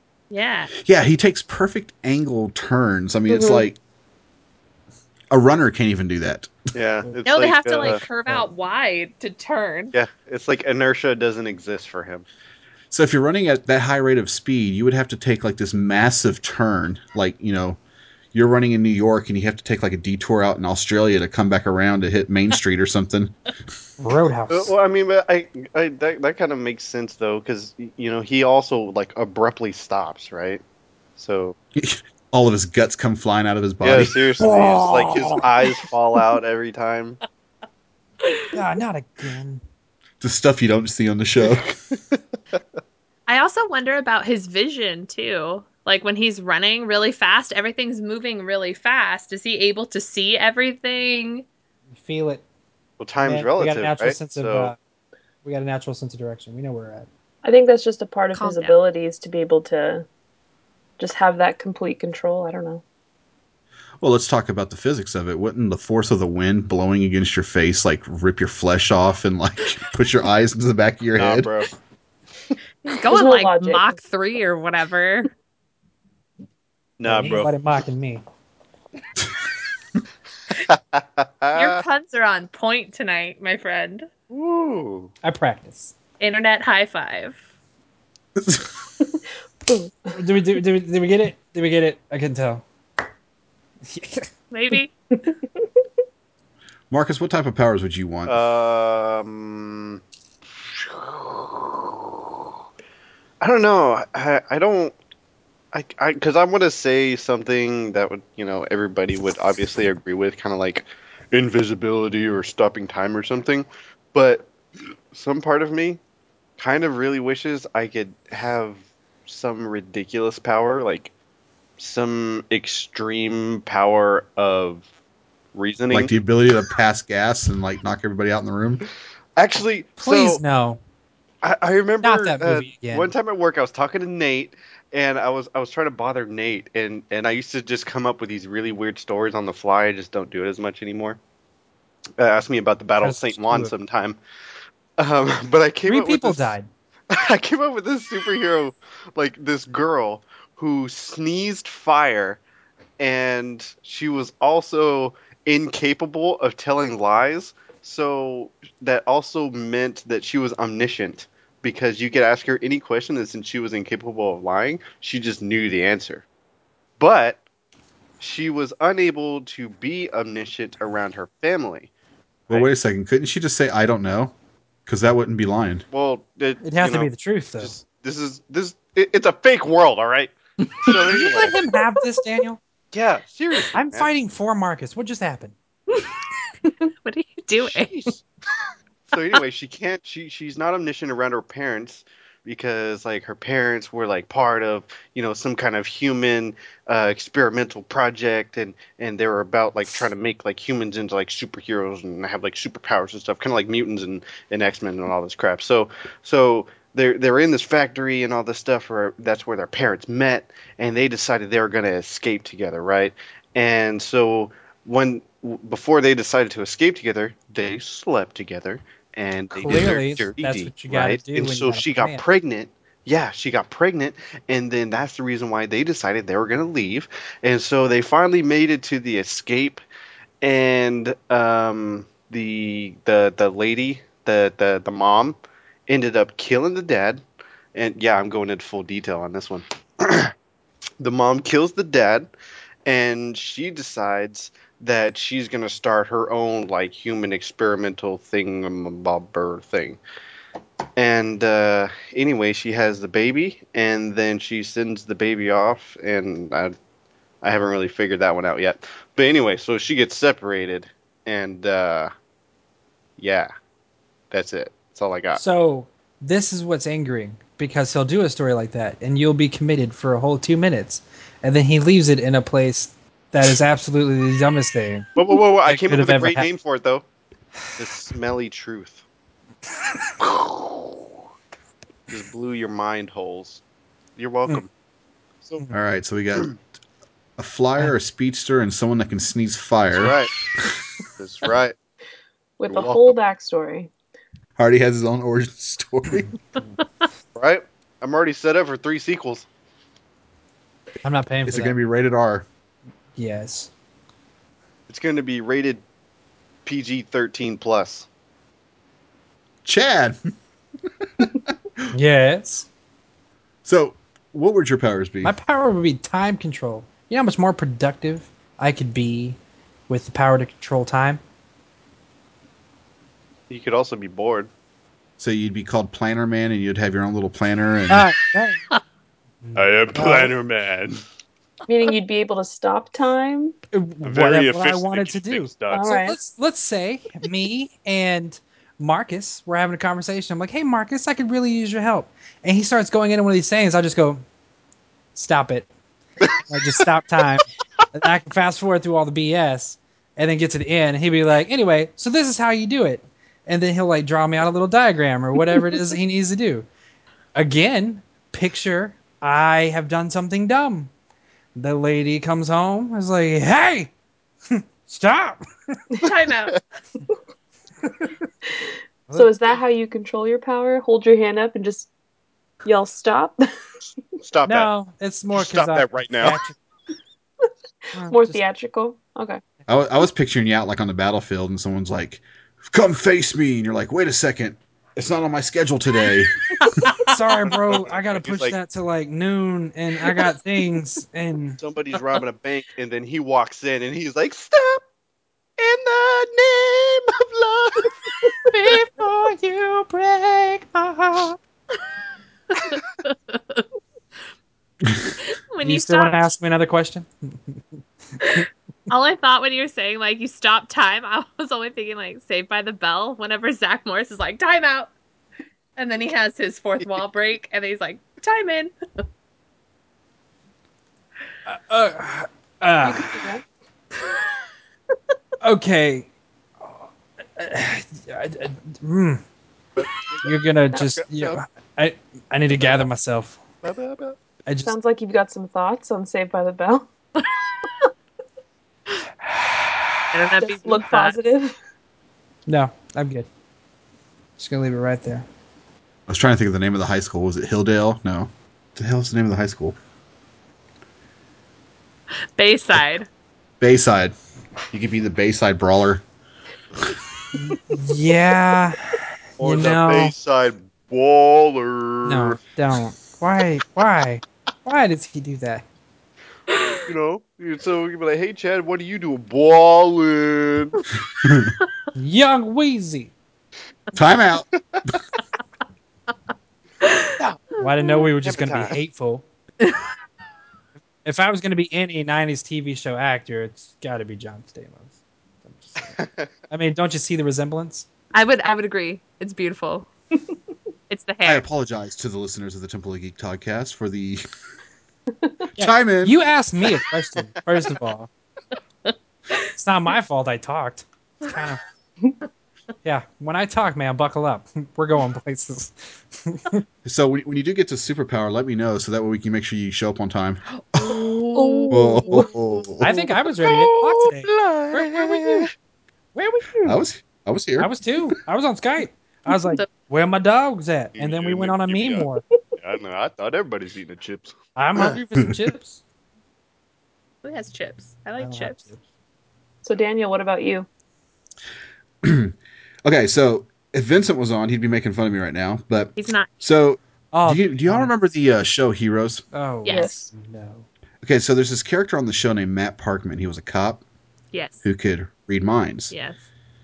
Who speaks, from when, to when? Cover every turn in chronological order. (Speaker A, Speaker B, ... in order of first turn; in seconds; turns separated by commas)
Speaker A: 0.3-0.7, Speaker B: 0.8-3.8, Speaker C: 3.3-3.7, Speaker B: 5.3-6.5, Speaker D: 6.7-8.0, Speaker A: 7.2-9.9, Speaker E: 7.8-8.5, Speaker D: 9.9-12.3, Speaker B: 12.9-17.8, Speaker B: 18.3-23.3, Speaker E: 24.0-24.7, Speaker D: 24.5-30.6, Speaker D: 31.2-31.6, Speaker B: 31.8-34.2, Speaker D: 33.8-37.2, Speaker E: 34.4-35.7, Speaker A: 38.2-38.5, Speaker E: 38.5-39.6, Speaker B: 40.2-41.7, Speaker A: 43.3-51.5, Speaker E: 52.0-52.4, Speaker D: 53.0-54.7, Speaker E: 53.2-54.8, Speaker E: 55.5-57.1, Speaker C: 57.4-60.1, Speaker A: 58.4-58.8, Speaker C: 61.0-62.8, Speaker B: 64.0-71.5, Speaker D: 71.2-71.7, Speaker A: 72.8-75.3, Speaker C: 73.1-74.0, Speaker D: 77.0-77.5, Speaker E: 77.0-78.2, Speaker D: 80.7-81.8, Speaker A: 81.5-84.1, Speaker D: 84.3-85.1, Speaker E: 85.2-86.0, Speaker A: 86.2-87.4, Speaker B: 88.4-88.7, Speaker C: 89.7-90.1, Speaker E: 90.1-92.6, Speaker E: 93.9-94.3, Speaker A: 94.5-94.9, Speaker B: 96.9-98.4, Speaker D: 98.3-100.0, Speaker D: 100.6-102.3, Speaker D: 103.4-105.0, Speaker D: 105.7-114.5, Speaker D: 115.1-116.0, Speaker D: 116.6-121.1, Speaker D: 121.8-124.9, Speaker D: 125.5-126.1, Speaker B: 125.9-128.8, Speaker D: 129.4-130.4, Speaker E: 130.0-130.8, Speaker D: 131.4-141.2, Speaker E: 132.0-133.1, Speaker D: 142.2-144.2, Speaker E: 143.0-143.7, Speaker D: 145.0-146.6, Speaker E: 145.9-146.7, Speaker D: 147.1-152.4, Speaker D: 153.0-166.2, Speaker D: 167.0-167.4, Speaker D: 168.2-171.9, Speaker B: 172.5-174.3, Speaker B: 174.9-175.8, Speaker D: 175.9-181.6, Speaker E: 176.6-177.8, Speaker E: 180.7-182.6, Speaker D: 182.9-184.1, Speaker E: 183.7-185.6, Speaker A: 187.0-187.9, Speaker D: 187.6-188.2, Speaker D: 189.1-229.8, Speaker E: 219.5-222.2, Speaker D: 230.4-240.3, Speaker D: 241.0-242.3, Speaker D: 242.8-250.0, Speaker D: 251.0-256.7, Speaker D: 257.4-262.1, Speaker D: 263.2-263.5, Speaker D: 264.3-265.4, Speaker E: 265.3-275.1, Speaker D: 275.2-277.1, Speaker E: 275.6-276.5, Speaker D: 277.8-279.0, Speaker D: 280.2-281.0, Speaker D: 282.1-283.6, Speaker D: 284.2-284.7, Speaker B: 285.7-286.5, Speaker B: 287.4-290.1, Speaker D: 290.0-290.3, Speaker D: 291.2-291.8, Speaker C: 292.6-293.9, Speaker D: 292.7-293.1, Speaker B: 294.6-296.4, Speaker D: 297.4-299.5, Speaker E: 301.0-301.7, Speaker B: 301.5-302.5, Speaker E: 303.2-303.7, Speaker D: 304.9-305.8, Speaker D: 306.6-308.1, Speaker B: 309.6-310.2, Speaker E: 311.9-312.7, Speaker B: 313.6-315.3, Speaker E: 315.2-319.4, Speaker E: 319.9-321.2, Speaker D: 323.5-324.5, Speaker B: 325.2-328.1, Speaker E: 327.9-328.6, Speaker E: 329.4-330.3, Speaker D: 329.6-331.0, Speaker C: 331.7-333.6, Speaker E: 333.7-344.2, Speaker D: 334.0-335.8, Speaker C: 335.7-336.2, Speaker E: 345.1-345.7, Speaker D: 346.2-346.8, Speaker E: 346.5-356.7, Speaker E: 357.4-360.9, Speaker E: 361.6-363.9, Speaker E: 364.5-365.8, Speaker A: 366.0-366.6, Speaker C: 368.5-371.9, Speaker C: 372.6-373.5, Speaker D: 374.2-374.7, Speaker E: 374.4-376.6, Speaker D: 375.3-376.4, Speaker E: 377.9-378.4, Speaker C: 378.1-379.4, Speaker B: 379.7-386.4, Speaker E: 387.1-391.6, Speaker D: 387.7-388.6, Speaker D: 391.6-394.8, Speaker D: 395.6-398.0, Speaker E: 398.5-401.4, Speaker A: 402.5-403.6, Speaker A: 405.2-406.2, Speaker E: 405.6-407.6, Speaker E: 408.2-408.4, Speaker A: 408.2-414.9, Speaker A: 415.8-418.7, Speaker E: 421.5-423.3, Speaker C: 422.8-423.4, Speaker E: 425.4-426.1, Speaker E: 426.6-429.2, Speaker D: 429.8-431.4, Speaker E: 430.2-433.4, Speaker D: 432.5-432.9, Speaker D: 433.6-434.2, Speaker E: 434.5-434.8, Speaker C: 434.6-436.9, Speaker E: 439.2-440.0, Speaker A: 440.1-441.2, Speaker C: 440.4-441.6, Speaker E: 442.5-443.3, Speaker E: 444.4-445.3, Speaker B: 446.1-449.8, Speaker A: 452.4-453.1, Speaker B: 453.6-454.1, Speaker B: 454.7-456.0, Speaker E: 457.4-460.1, Speaker D: 459.4-462.4, Speaker E: 462.1-465.6, Speaker A: 466.5-466.8, Speaker D: 466.9-470.8, Speaker B: 471.2-471.5, Speaker E: 472.0-473.1, Speaker B: 473.9-474.5, Speaker A: 476.8-477.1, Speaker E: 477.6-479.2, Speaker D: 478.2-478.8, Speaker E: 481.1-484.9, Speaker E: 485.4-486.0, Speaker D: 485.9-486.3, Speaker E: 486.5-487.9, Speaker A: 488.1-489.9, Speaker A: 490.9-491.4, Speaker B: 491.2-494.2, Speaker B: 495.6-496.2, Speaker E: 495.6-498.1, Speaker A: 498.9-499.5, Speaker E: 499.6-501.6, Speaker E: 502.8-506.6, Speaker B: 506.9-511.0, Speaker A: 510.5-512.0, Speaker C: 511.3-512.3, Speaker B: 511.7-513.0, Speaker E: 512.8-515.5, Speaker D: 512.9-515.5, Speaker E: 516.1-516.8, Speaker B: 516.6-517.7, Speaker E: 517.6-522.2, Speaker D: 521.0-522.1, Speaker D: 522.6-525.0, Speaker E: 524.6-525.8, Speaker A: 527.2-528.6, Speaker E: 528.2-528.8, Speaker C: 529.6-530.7, Speaker B: 532.0-539.2, Speaker A: 536.0-536.3, Speaker E: 537.1-537.9, Speaker E: 539.3-540.7, Speaker A: 539.6-540.1, Speaker C: 539.7-540.1, Speaker B: 541.0-543.8, Speaker A: 544.3-544.6, Speaker B: 544.6-545.9, Speaker A: 545.9-546.2